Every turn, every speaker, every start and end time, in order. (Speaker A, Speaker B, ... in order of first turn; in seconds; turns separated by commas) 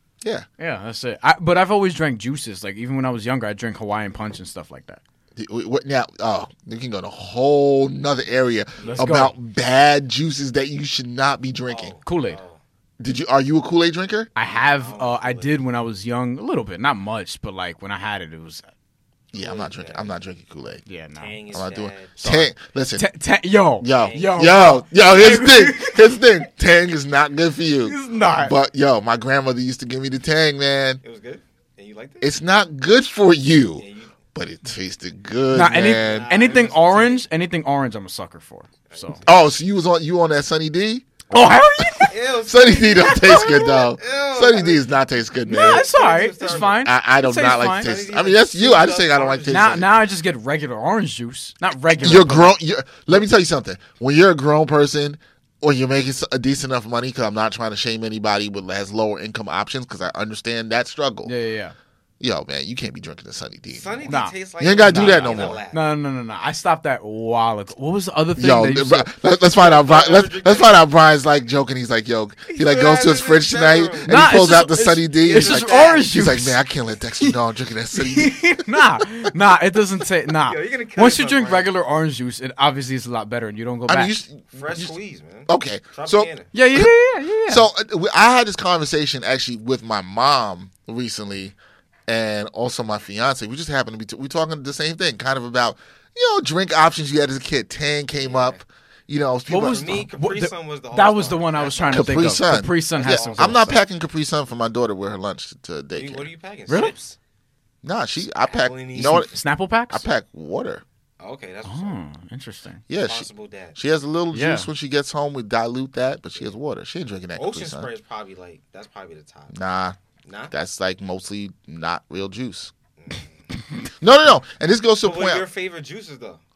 Speaker A: 0.6-5.0, Speaker B: 5.3-11.9, Speaker C: 8.8-9.1, Speaker A: 8.8-9.3, Speaker C: 11.7-12.6, Speaker A: 12.0-12.4, Speaker B: 13.0-14.3, Speaker A: 14.3-18.7, Speaker C: 14.5-15.6, Speaker B: 19.3-20.8, Speaker C: 19.3-20.1, Speaker A: 20.9-21.3, Speaker C: 21.2-22.2, Speaker B: 21.5-23.1, Speaker A: 22.2-26.3, Speaker B: 23.8-31.0, Speaker C: 23.9-24.7, Speaker A: 27.8-28.5, Speaker C: 31.0-32.3, Speaker B: 32.2-36.3, Speaker C: 33.8-34.2, Speaker A: 35.5-39.2, Speaker C: 35.8-37.2, Speaker C: 38.9-39.4, Speaker B: 39.2-41.0, Speaker A: 41.3-42.1, Speaker C: 42.1-44.9, Speaker B: 42.5-45.9, Speaker C: 45.5-46.9, Speaker A: 45.5-47.9, Speaker B: 46.4-49.9, Speaker C: 47.5-49.8, Speaker A: 49.5-52.6, Speaker B: 52.0-61.3, Speaker A: 61.2-61.7, Speaker B: 62.2-65.6, Speaker C: 63.7-65.8, Speaker A: 64.1-64.3, Speaker A: 64.9-69.1, Speaker B: 68.3-79.0, Speaker C: 69.5-70.8, Speaker C: 72.5-74.3, Speaker A: 74.1-76.6, Speaker C: 75.2-76.1, Speaker A: 77.9-84.2, Speaker C: 80.4-81.7, Speaker B: 83.9-84.9, Speaker C: 84.5-86.5, Speaker B: 85.5-86.9, Speaker A: 86.5-87.7, Speaker B: 87.5-91.5, Speaker B: 92.1-100.1, Speaker C: 98.2-98.6, Speaker A: 99.5-103.8, Speaker C: 99.6-102.3, Speaker B: 101.9-106.3, Speaker C: 102.9-103.7, Speaker C: 105.9-107.2, Speaker A: 106.7-106.9, Speaker B: 107.8-109.3, Speaker C: 108.4-109.2, Speaker A: 109.0-110.0, Speaker B: 109.9-110.8, Speaker C: 111.2-112.0, Speaker A: 111.6-112.8, Speaker B: 112.9-117.9, Speaker C: 113.0-113.8, Speaker A: 114.3-114.7, Speaker C: 117.3-119.5, Speaker B: 119.5-120.0, Speaker C: 120.2-120.5, Speaker B: 120.5-122.7, Speaker C: 123.0-123.5, Speaker B: 124.0-125.5, Speaker C: 125.0-126.4